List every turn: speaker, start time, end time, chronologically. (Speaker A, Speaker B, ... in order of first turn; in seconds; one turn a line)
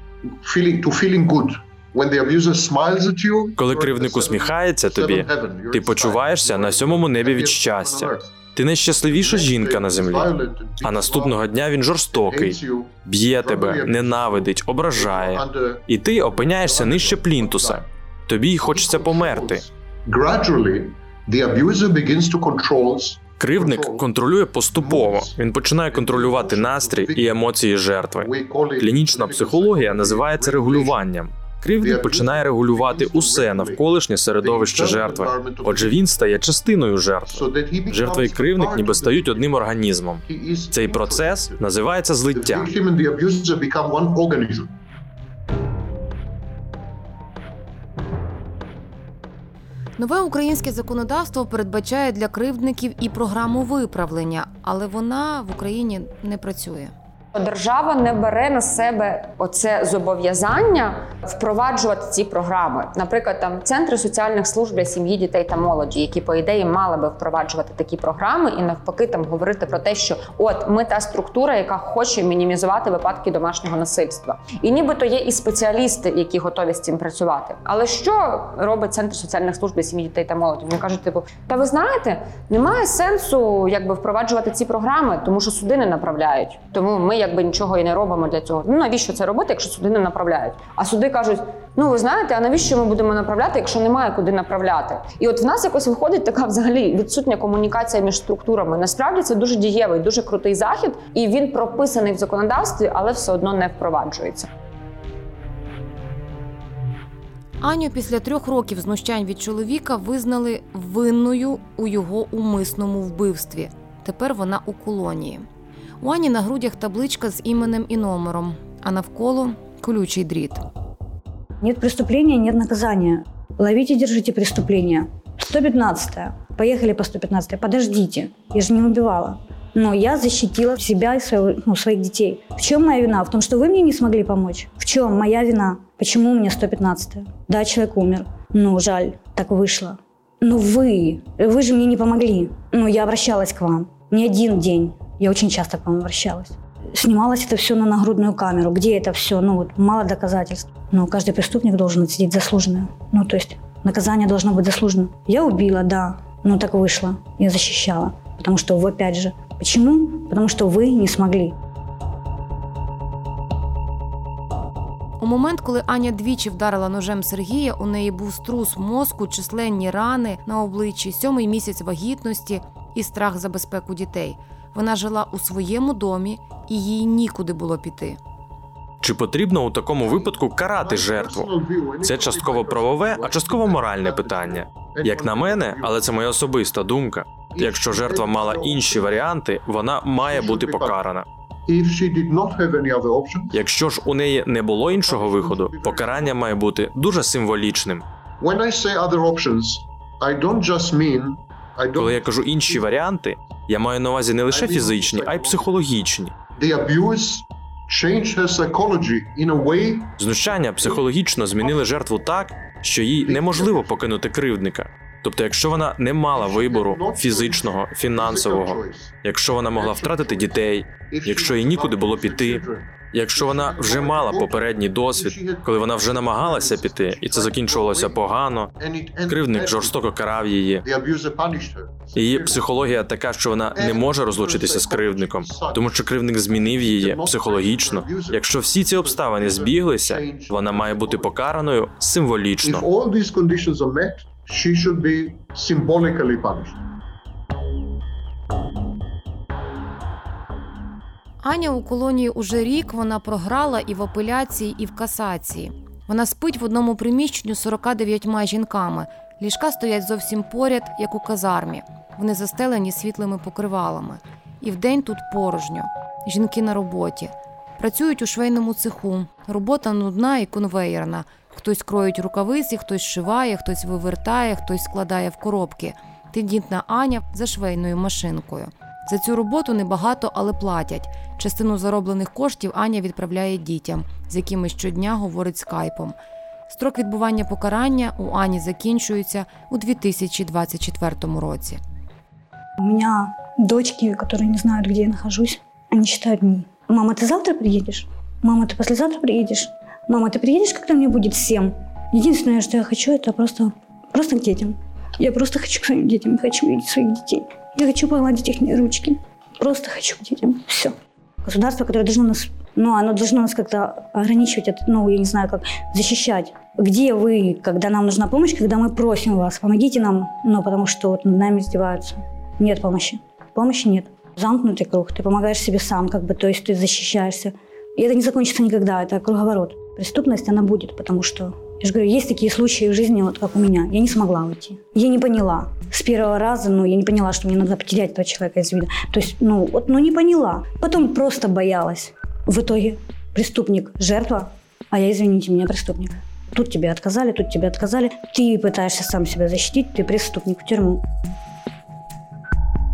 Speaker A: 0.3-8.3
Speaker B: 3.6-19.6
Speaker A: 9.1-11.5
Speaker A: 12.1-17.9
Speaker A: 18.6-24.1
Speaker B: 23.4-42.7
Speaker A: 24.6-27.5
Speaker A: 28.2-31.0
Speaker A: 31.8-36.1
Speaker A: 37.2-39.7
Speaker A: 40.2-41.7
Speaker A: 42.3-44.8
Speaker C: 50.0-56.9
Speaker D: 57.3-104.5
Speaker C: 107.6-115.5
Speaker C: 116.0-120.6
Speaker E: 121.6-161.6
Speaker C: 165.2-178.2
Speaker B: 179.0-181.5
Speaker A: 180.0-186.3
Speaker B: 182.0-191.2
Speaker A: 187.5-189.3
Speaker A: 190.1-191.1
Speaker A: 191.7-193.6
Speaker B: 193.5-198.0
Speaker A: 194.8-196.6
Speaker A: 198.4-203.2
Speaker B: 201.9-206.3
Speaker A: 204.5-205.7
Speaker A: 206.6-210.2
Speaker B: 210.2-228.7
Speaker A: 210.8-211.0
Speaker A: 211.6-211.9
Speaker A: 213.2-214.0
Speaker A: 216.3-219.2
Speaker A: 219.7-230.0
Speaker B: 229.3-230.8
Speaker A: 230.8-232.7
Speaker B: 232.2-242.8
Speaker A: 233.7-241.5
Speaker A: 242.6-246.8
Speaker C: 251.4-286.1
Speaker C: 286.7-291.8
Speaker E: 292.8-351.0